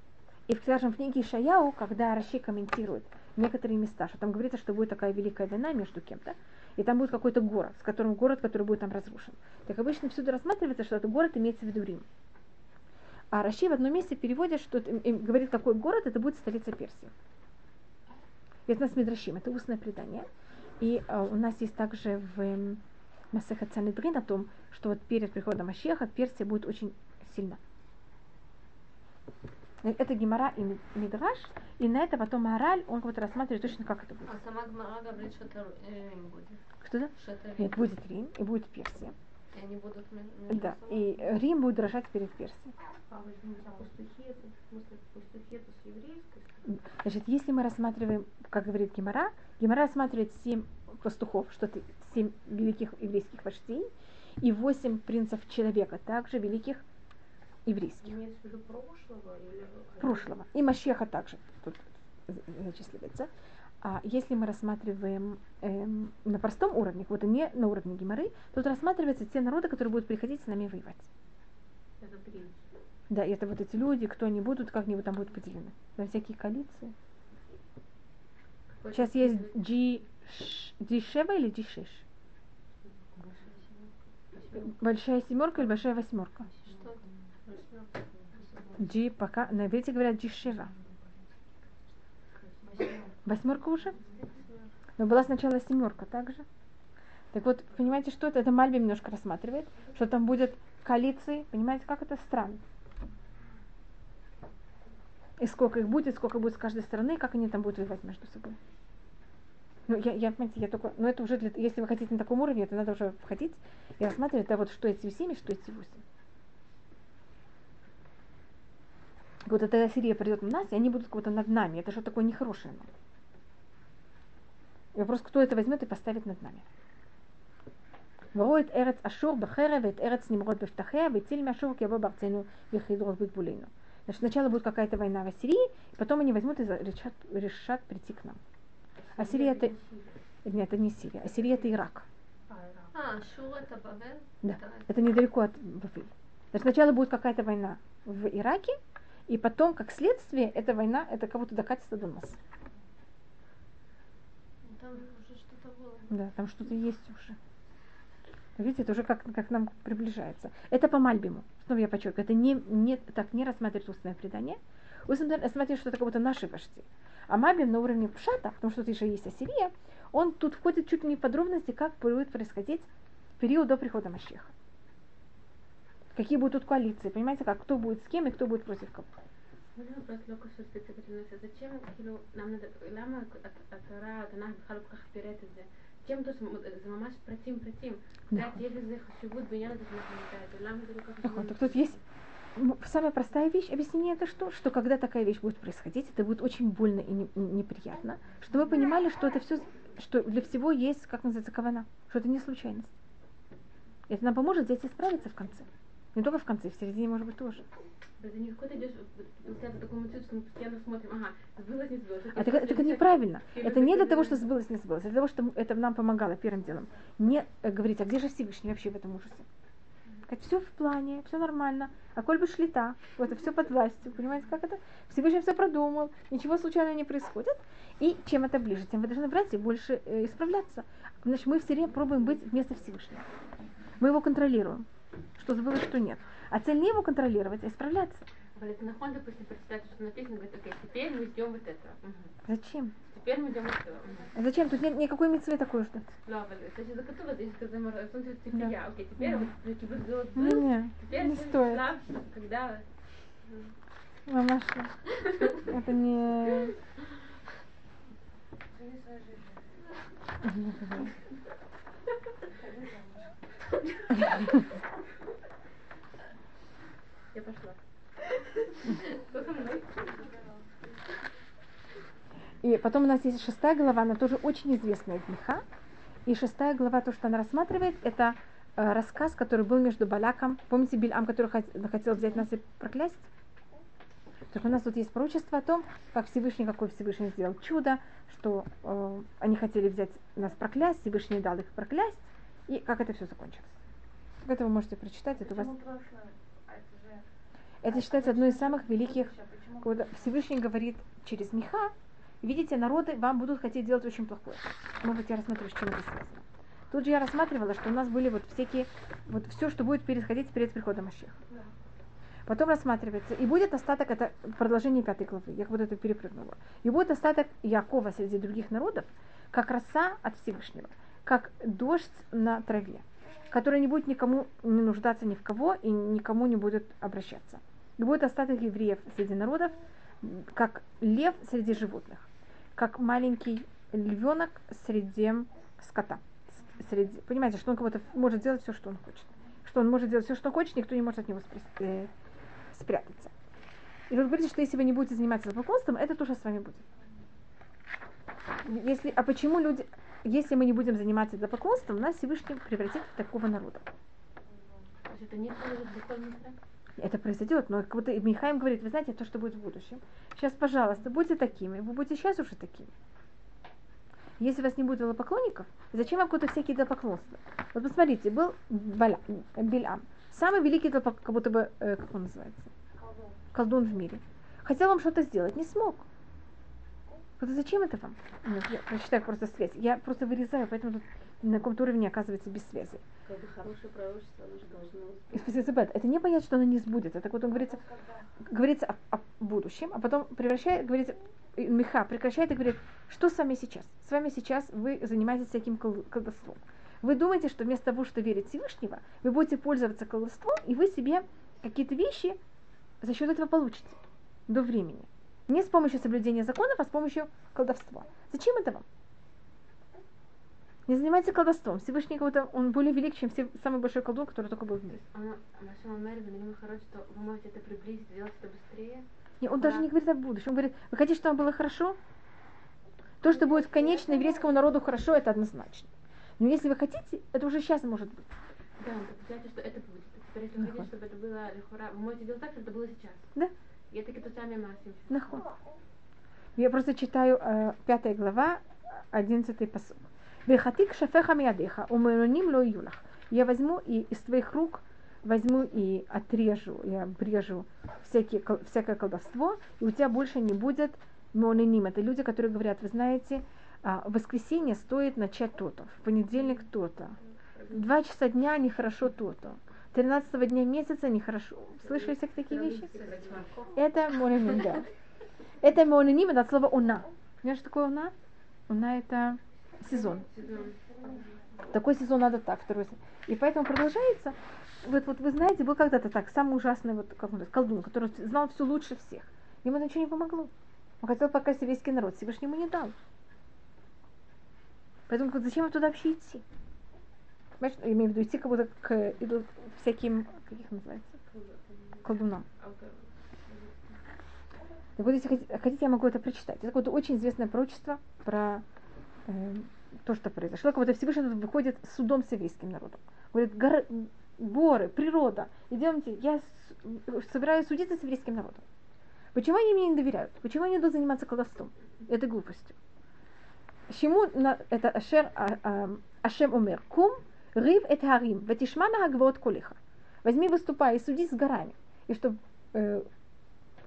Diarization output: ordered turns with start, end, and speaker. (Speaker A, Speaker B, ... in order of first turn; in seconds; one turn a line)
Speaker A: 0.5-12.1
Speaker A: 13.3-17.1
Speaker A: 18.7-20.3
Speaker A: 20.8-22.8
Speaker A: 23.3-27.6
Speaker A: 29.8-34.4
Speaker B: 34.2-37.9
Speaker A: 36.8-39.1
Speaker B: 39.5-41.3
Speaker A: 40.5-42.7
Speaker C: 43.1-46.7
Speaker A: 46.7-56.8
Speaker A: 57.7-58.2
Speaker C: 58.0-60.4
Speaker A: 60.0-63.3
Speaker A: 63.8-71.1
Speaker C: 72.0-72.6
Speaker A: 73.1-76.9
Speaker C: 78.8-79.6
Speaker A: 78.9-82.0
Speaker C: 83.1-84.6
Speaker A: 84.5-86.5
Speaker C: 86.6-86.9
Speaker B: 86.7-88.4
Speaker C: 88.3-88.6
Speaker A: 88.8-90.7
Speaker C: 92.6-93.1
Speaker A: 93.2-94.0
Speaker C: 94.0-94.5
Speaker A: 95.0-96.5
Speaker A: 97.3-102.6
Speaker A: 105.4-108.6
Speaker A: 109.9-116.0
Speaker A: 119.5-122.9
Speaker A: 124.9-126.7
Speaker A: 128.3-138.4
Speaker A: 139.2-139.7
Speaker C: 139.2-140.1
Speaker A: 140.4-142.1
Speaker C: 142.5-142.9
Speaker B: 142.9-144.9
Speaker A: 144.4-152.4
Speaker B: 154.6-156.1
Speaker A: 156.1-157.4
Speaker A: 158.6-174.5
Speaker A: 176.2-179.1
Speaker C: 179.8-192.0
Speaker A: 188.3-188.6
Speaker A: 191.2-192.0
Speaker A: 192.6-202.9
Speaker A: 204.1-207.7
Speaker C: 208.2-214.4
Speaker A: 212.3-219.4
Speaker A: 220.3-233.3
Speaker A: 234.0-234.9
Speaker A: 235.4-238.2
Speaker C: 238.6-242.3
Speaker A: 242.5-242.9
Speaker C: 243.1-244.3
Speaker A: 244.3-246.1
Speaker C: 246.3-252.9
Speaker A: 248.5-249.5
Speaker A: 250.3-251.9
Speaker A: 254.3-254.9
Speaker A: 255.5-256.8
Speaker C: 258.7-259.5
Speaker A: 260.4-261.1
Speaker C: 262.6-263.2
Speaker C: 267.3-267.8
Speaker C: 268.8-270.3
Speaker A: 272.6-275.6
Speaker A: 276.3-283.3
Speaker A: 284.5-293.8
Speaker A: 294.4-295.7
Speaker C: 295.4-297.2
Speaker A: 297.8-311.4
Speaker C: 297.9-300.3
Speaker A: 312.5-342.1
Speaker A: 342.7-343.3
Speaker A: 344.1-346.8
Speaker A: 348.6-353.9
Speaker C: 355.1-356.6
Speaker A: 357.0-362.9
Speaker A: 364.4-372.7
Speaker C: 373.0-373.4
Speaker A: 373.5-376.1
Speaker A: 377.4-383.0
Speaker C: 383.3-385.4
Speaker A: 385.3-387.8
Speaker C: 387.8-388.2
Speaker A: 388.5-402.4
Speaker A: 403.0-408.9
Speaker A: 410.9-415.0
Speaker C: 415.0-419.9
Speaker A: 419.4-422.0
Speaker A: 423.2-428.3
Speaker C: 423.3-424.4
Speaker C: 428.8-433.3
Speaker A: 430.6-430.9
Speaker C: 433.9-435.4
Speaker A: 435.1-435.5
Speaker A: 436.6-457.2
Speaker A: 457.7-462.9
Speaker C: 461.9-463.7
Speaker A: 463.7-464.9
Speaker A: 465.6-468.1
Speaker A: 468.7-470.3
Speaker C: 469.9-471.2
Speaker A: 471.7-482.9
Speaker A: 485.1-486.4
Speaker A: 487.6-491.2
Speaker C: 491.3-492.1
Speaker A: 492.0-492.5
Speaker C: 492.6-494.0
Speaker A: 495.0-498.6
Speaker A: 499.3-508.6
Speaker A: 509.3-512.8
Speaker A: 513.9-523.1